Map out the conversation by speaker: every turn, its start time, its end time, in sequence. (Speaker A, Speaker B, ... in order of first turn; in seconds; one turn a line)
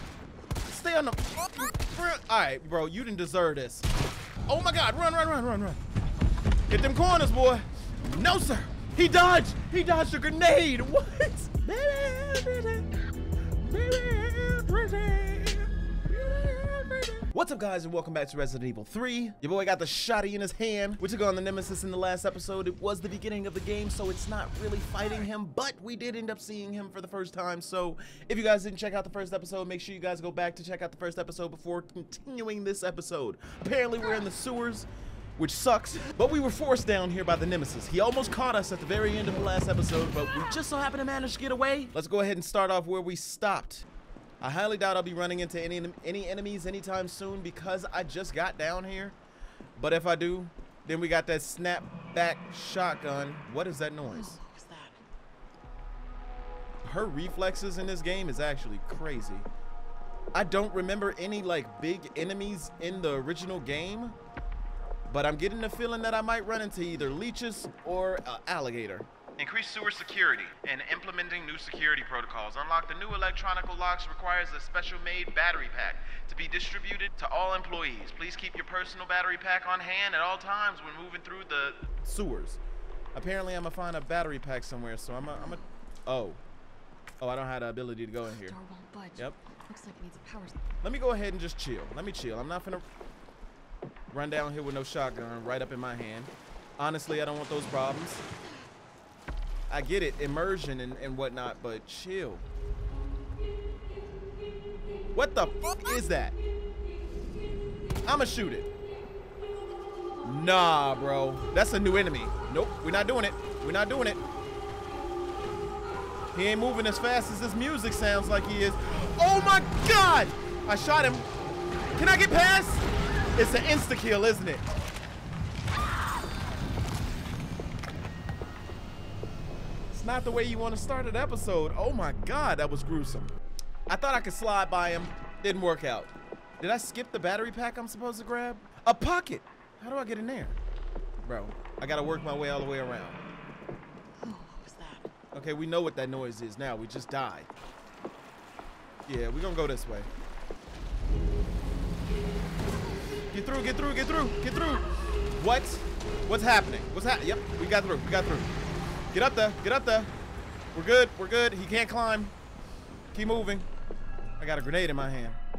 Speaker A: 0.7-3.9
Speaker A: 4.5-5.8
Speaker A: 6.7-12.9
Speaker A: 13.6-43.9
Speaker A: 44.4-49.2
Speaker A: 49.8-54.4
Speaker B: 54.0-55.0
Speaker A: 56.8-59.5
Speaker A: 60.3-64.2
Speaker A: 65.1-82.6
Speaker A: 83.1-86.4
Speaker A: 87.2-88.5
Speaker B: 88.3-90.6
Speaker A: 90.8-92.8
Speaker A: 94.1-98.2
Speaker A: 99.7-102.5
Speaker A: 105.1-106.4
Speaker A: 108.0-108.7
Speaker A: 110.2-114.2
Speaker A: 116.3-121.2
Speaker A: 121.9-124.6
Speaker A: 129.9-133.3
Speaker A: 133.9-140.6
Speaker A: 141.2-143.2
Speaker B: 144.2-145.1
Speaker A: 145.3-147.5
Speaker A: 149.1-150.1
Speaker A: 153.3-158.5
Speaker A: 159.1-160.1
Speaker A: 160.7-162.3
Speaker A: 163.1-163.7
Speaker A: 164.4-165.4